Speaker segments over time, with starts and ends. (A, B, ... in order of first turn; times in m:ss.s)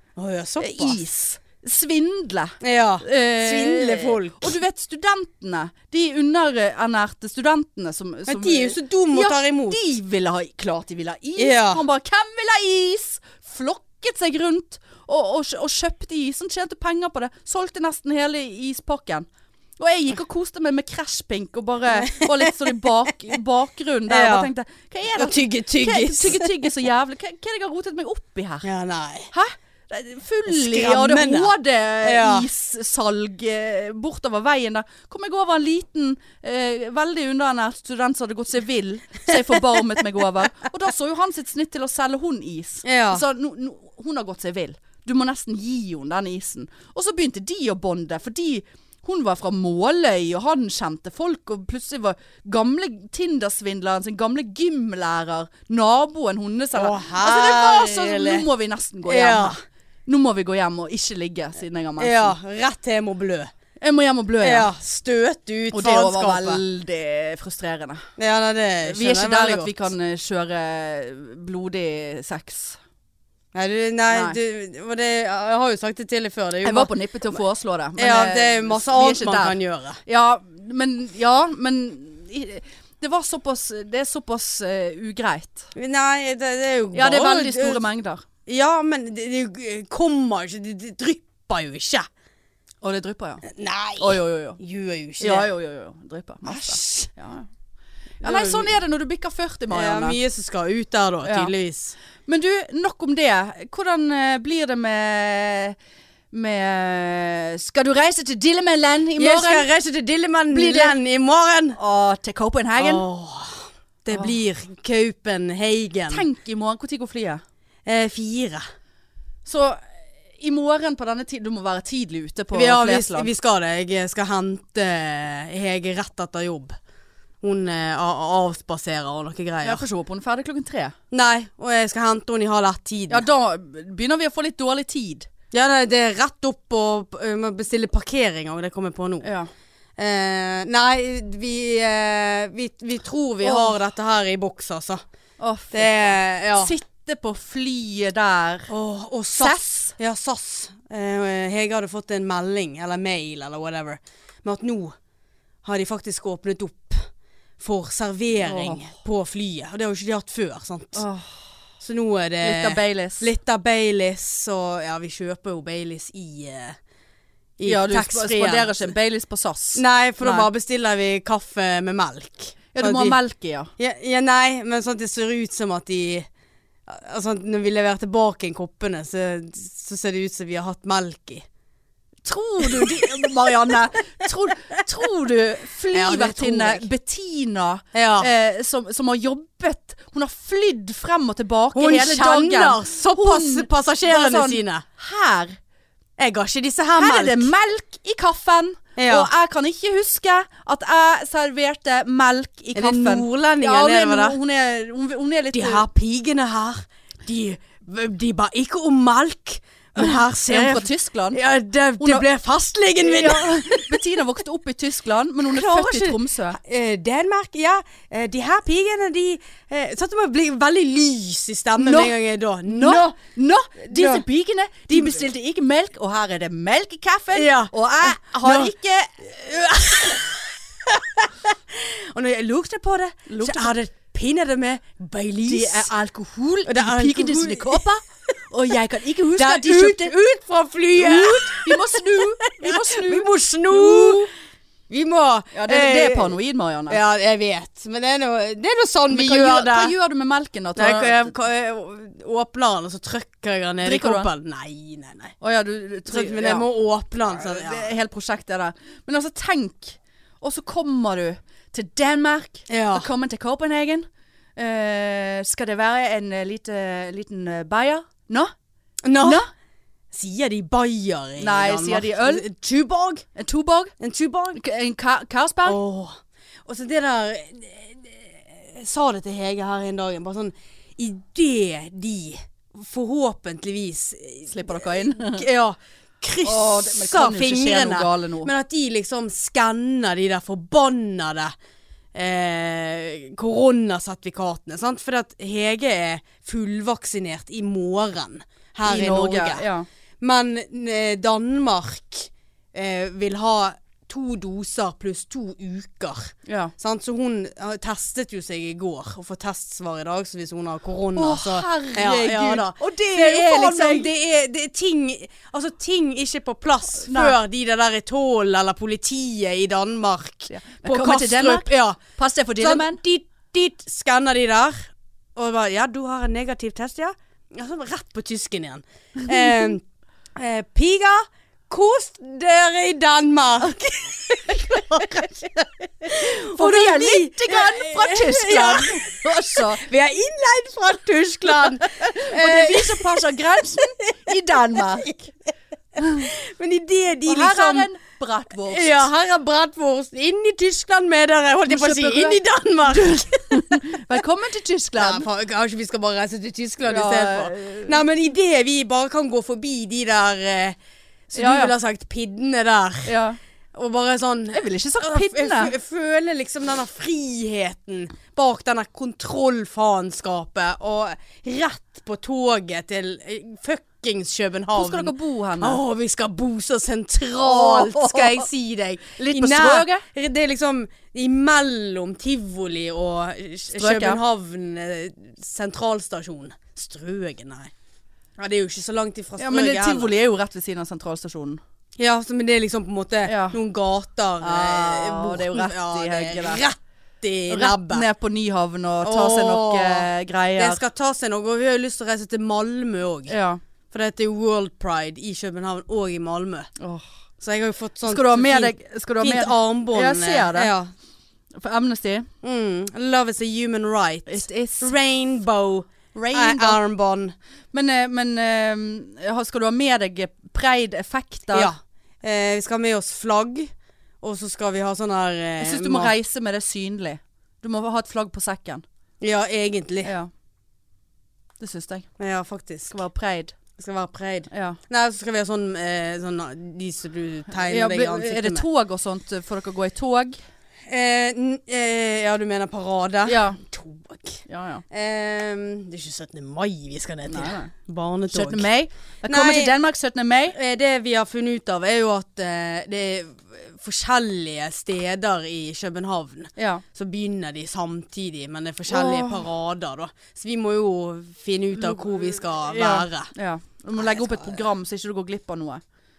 0:00.2-0:01.0 A
0:00.6-0:19.3 B
0:02.6-0:04.6 A
0:08.3-0:09.8 A
0:11.4-0:11.8 A
0:19.8-0:28.7 B
0:21.9-0:22.5 A
0:24.1-0:24.5 A
0:25.2-0:26.6 A
0:28.6-0:29.3 A
0:29.3-1:02.4 B
0:30.5-0:32.5 A
0:42.8-0:43.2 A
0:56.8-0:58.5 A
0:59.1-0:59.6 A
1:02.0-1:03.5 A
1:03.8-1:04.7 B
1:04.4-1:06.6 A
1:05.7-1:08.0 B
1:08.2-1:09.9 A
1:08.9-1:12.8 B
1:13.5-1:16.9 A
1:14.1-1:14.4 B
1:16.6-1:25.7 B
1:18.0-1:20.0 A
1:25.8-1:27.8 A
1:26.9-1:28.2 B
1:28.5-1:32.1 A
1:32.8-1:33.4 B
1:33.5-1:35.5 A
1:34.0-1:34.6 B
1:35.2-1:37.5 B
1:36.4-1:37.1 A
1:38.2-1:38.7 A
1:38.2-1:40.2 B
1:39.7-1:42.0 A
1:41.2-1:41.5 B
1:42.3-1:45.8 B
1:46.3-1:49.7 B
1:49.2-1:51.8 A
1:50.5-1:51.0 B
1:51.8-1:53.0 B
1:52.8-1:56.3 A
1:56.1-1:57.4 B
1:57.9-1:58.7 A
1:59.4-1:59.8 B
2:00.4-2:03.3 B
2:02.5-2:06.8 A
2:07.4-2:09.8 A
2:09.6-2:11.0 B
2:11.1-2:13.2 A
2:13.1-2:15.3 B
2:15.5-2:19.3 A
2:19.2-2:19.5 B
2:20.0-2:25.0 A
2:23.4-2:23.8 B
2:25.4-2:28.7 B
2:25.7-2:26.8 A
2:28.7-2:35.0 A
2:29.4-2:30.0 B
2:35.6-2:41.0 A
2:38.4-2:38.9 B
2:40.9-2:41.4 B
2:41.8-2:46.8 A
2:42.4-2:43.3 B
2:47.6-2:48.9 A
2:47.6-2:50.5 B
2:49.8-2:53.2 A
2:52.7-2:53.7 B
2:53.8-2:56.3 A
2:56.9-3:01.5 A
3:02.2-3:15.6 B
3:02.7-3:03.3 A
3:05.9-3:06.9 A
3:07.9-3:08.3 A
3:11.7-3:14.8 A
3:16.2-3:17.5 A
3:17.0-3:25.9 B
3:19.0-3:19.3 A
3:22.8-3:24.4 A
3:25.5-3:34.0 A
3:30.0-3:31.4 B
3:32.0-3:32.3 B
3:33.0-3:36.6 B
3:35.5-3:43.1 A
3:41.8-3:42.2 B
3:42.7-3:49.4 B
3:43.9-3:44.2 A
3:44.9-3:45.2 A
3:47.3-3:48.7 A
3:49.3-3:55.9 A
3:53.3-3:53.8 B
3:55.5-4:00.2 B
3:56.7-3:57.8 A
3:59.4-4:04.3 A
4:01.0-4:04.3 B
4:04.9-4:06.4 A
4:05.5-4:07.0 B
4:06.9-4:09.9 A
4:09.1-4:11.3 B
4:10.8-4:15.4 A
4:13.8-4:14.3 B
4:15.4-4:16.7 B
4:16.1-4:17.9 A
4:17.3-4:28.5 B
4:22.7-4:23.1 A
4:29.0-4:29.4 A
4:29.2-4:29.5 B
4:30.1-4:33.3 A
4:31.4-4:32.4 B
4:33.4-4:33.9 B
4:34.0-4:34.6 A
4:34.6-4:35.8 B
4:35.6-4:51.5 A
4:44.5-4:45.4 B
4:46.4-4:48.5 B
4:52.1-4:59.7 A
4:58.9-4:59.9 B
5:00.2-5:22.0 A
5:06.5-5:06.7 B
5:11.2-5:14.1 B
5:17.0-5:17.4 B
5:20.5-5:23.0 B
5:22.6-5:29.8 A
5:30.4-5:43.2 A
5:34.5-5:35.2 B
5:36.1-5:39.8 B
5:41.6-5:45.3 B
5:43.8-5:44.2 A
5:46.0-5:46.3 B
5:46.0-5:47.9 A
5:47.3-5:49.1 B
5:48.7-5:53.8 A
5:51.7-5:55.3 B
5:55.0-6:00.8 A
5:56.9-5:58.0 B
6:01.3-6:03.1 A
6:01.4-6:01.7 B
6:03.1-6:03.4 B
6:03.7-6:27.7 A
6:04.5-6:05.7 B
6:14.7-6:15.8 B
6:17.4-6:18.5 B
6:19.2-6:20.0 B
6:23.7-6:24.2 B
6:28.4-6:30.1 A
6:29.4-6:31.6 B
6:32.0-6:38.1 A
6:33.2-6:33.6 B
6:34.4-6:36.6 B
6:37.5-6:40.8 B
6:39.0-6:43.4 A
6:43.3-6:43.6 B
6:43.9-6:46.7 A
6:46.8-6:47.1 B
6:47.4-6:50.9 A
6:48.1-6:50.7 B
6:51.6-6:52.3 B
6:52.4-6:57.4 A
6:54.3-6:54.9 B
6:56.2-6:56.8 B
6:57.7-7:01.7 B
7:01.5-7:06.1 A
7:05.6-7:08.8 B
7:09.2-7:10.2 A
7:10.0-7:10.3 B
7:11.6-7:12.1 B
7:12.2-7:13.0 A
7:12.9-7:13.6 B
7:13.8-7:18.6 A
7:14.5-7:14.8 B
7:17.6-7:20.4 B
7:20.9-7:28.7 A
7:23.3-7:23.6 B
7:24.5-7:24.8 B
7:27.3-7:27.7 B
7:28.3-7:30.6 B
7:29.3-7:29.7 A
7:30.5-7:43.3 A
7:36.6-7:36.8 B
7:38.9-7:39.4 B
7:42.6-7:45.8 B
7:44.0-7:44.5 A